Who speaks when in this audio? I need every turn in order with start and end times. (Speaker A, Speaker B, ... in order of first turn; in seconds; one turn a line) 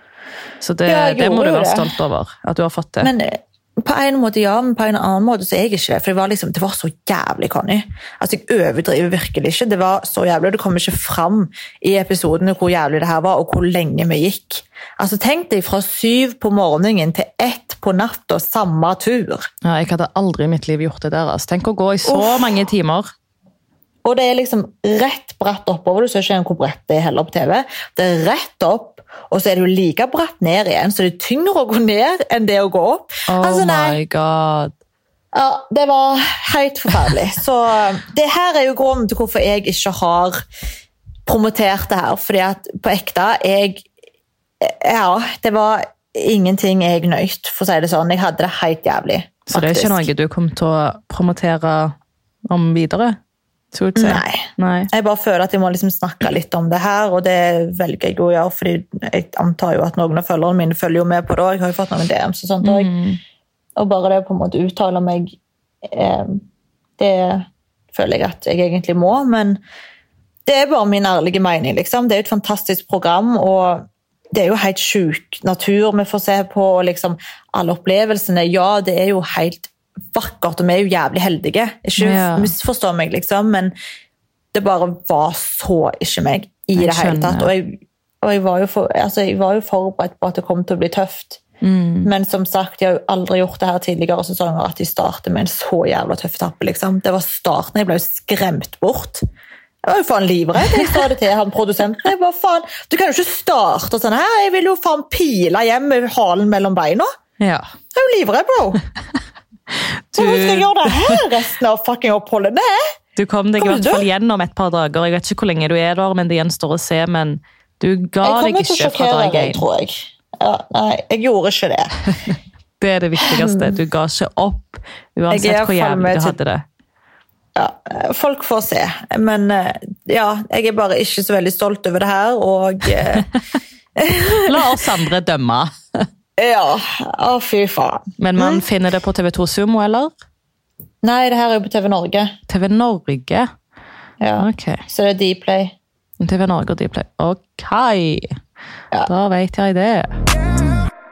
Speaker A: 0.6-3.1
Speaker B: 0.9-1.9
Speaker B: 3.0-19.5
Speaker A: 19.6-23.1
Speaker B: 22.1-22.6
Speaker B: 24.1-34.0
Speaker A: 33.3-34.7
Speaker B: 35.3-40.4
Speaker B: 41.3-43.9
Speaker B: 44.6-50.1
Speaker A: 49.5-52.0
Speaker A: 52.5-53.2
Speaker A: 53.7-54.9
Speaker B: 54.0-62.9
Speaker A: 62.6-63.2
Speaker B: 63.8-66.4
Speaker B: 67.0-69.6
Speaker B: 70.5-83.7
Speaker A: 82.0-82.5
Speaker B: 84.5-91.4
Speaker A: 86.8-87.5
Speaker A: 91.6-92.1
Speaker B: 92.0-99.2
Speaker B: 99.8-107.1
Speaker A: 107.4-107.7
Speaker B: 107.9-108.8
Speaker A: 109.7-111.2
Speaker B: 110.1-112.9
Speaker A: 113.2-119.6
Speaker B: 113.6-114.0
Speaker B: 118.2-122.0
Speaker A: 122.8-126.6
Speaker B: 123.2-123.8
Speaker B: 125.3-126.4
Speaker B: 127.6-133.3
Speaker B: 134.0-134.8
Speaker A: 134.5-136.1
Speaker B: 136.4-138.6
Speaker A: 138.2-140.1
Speaker B: 141.0-142.3
Speaker A: 142.5-143.5
Speaker B: 144.2-145.8
Speaker A: 144.4-144.8
Speaker A: 146.2-148.4
Speaker A: 149.1-150.2